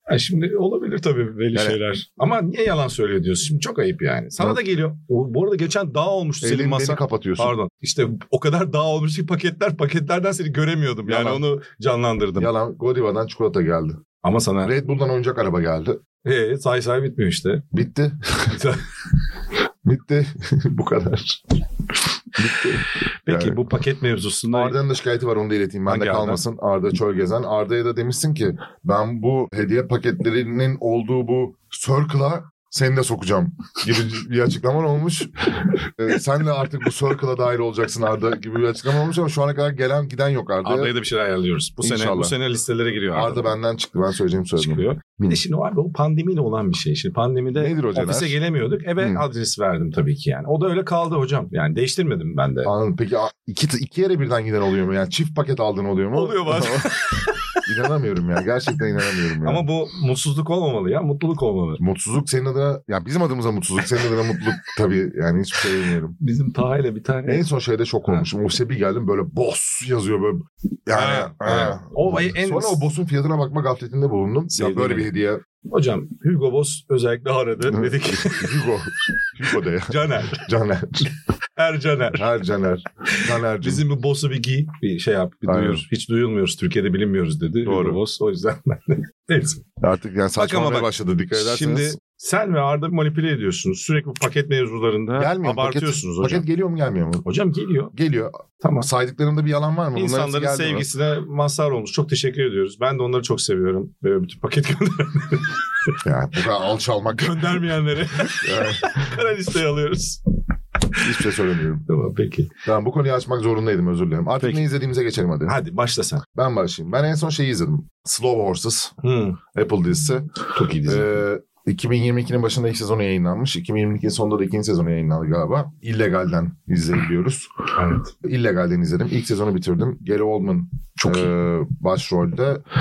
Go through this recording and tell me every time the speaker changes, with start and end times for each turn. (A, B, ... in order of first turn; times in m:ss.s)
0:00.1-0:12.5 A
0:06.4-0:07.6 B
0:11.1-0:11.4 B
0:12.4-0:14.0 B
0:14.2-0:14.7 A
0:14.6-0:16.0 B
0:16.2-0:17.7 A
0:17.7-0:18.6 B
0:18.4-0:18.8 A
0:19.8-0:21.4 B
0:22.4-0:23.6 B
0:23.2-0:24.8 A
0:24.5-0:40.9 B
0:25.9-0:26.4 A
0:40.6-0:43.6 A
0:41.8-0:42.4 B
0:43.1-0:45.4 B
0:44.6-0:52.7 A
0:47.6-0:48.4 B
0:49.0-0:49.2 B
0:52.6-0:56.9 B
0:56.1-0:57.6 A
0:57.6-0:59.6 B
0:59.4-1:01.8 A
1:01.8-1:06.2 B
1:06.2-1:07.4 A
1:07.3-1:15.4 B
1:10.9-1:12.9 A
1:14.5-1:15.1 A
1:15.7-1:18.6 A
1:17.6-1:21.1 B
1:19.9-1:20.4 A
1:21.6-1:22.3 A
1:22.1-1:23.8 B
1:23.1-1:29.6 A
1:25.5-1:25.8 B
1:27.6-1:28.0 B
1:29.8-1:32.0 B
1:30.4-1:36.4 A
1:35.2-1:37.3 B
1:37.2-1:37.9 A
1:37.9-1:40.9 B
1:38.6-1:38.9 A
1:40.0-1:45.9 A
1:46.0-1:47.6 B
1:47.1-1:50.2 A
1:48.4-1:49.2 B
1:51.0-1:51.8 B
1:51.9-1:52.5 A
1:52.6-1:55.6 B
1:55.5-1:56.2 A
1:56.4-1:59.0 B
1:59.0-1:59.4 A
1:59.5-2:07.5 B
2:00.5-2:01.2 A
2:07.8-2:08.1 A
2:08.1-2:12.6 B
2:11.0-2:11.3 A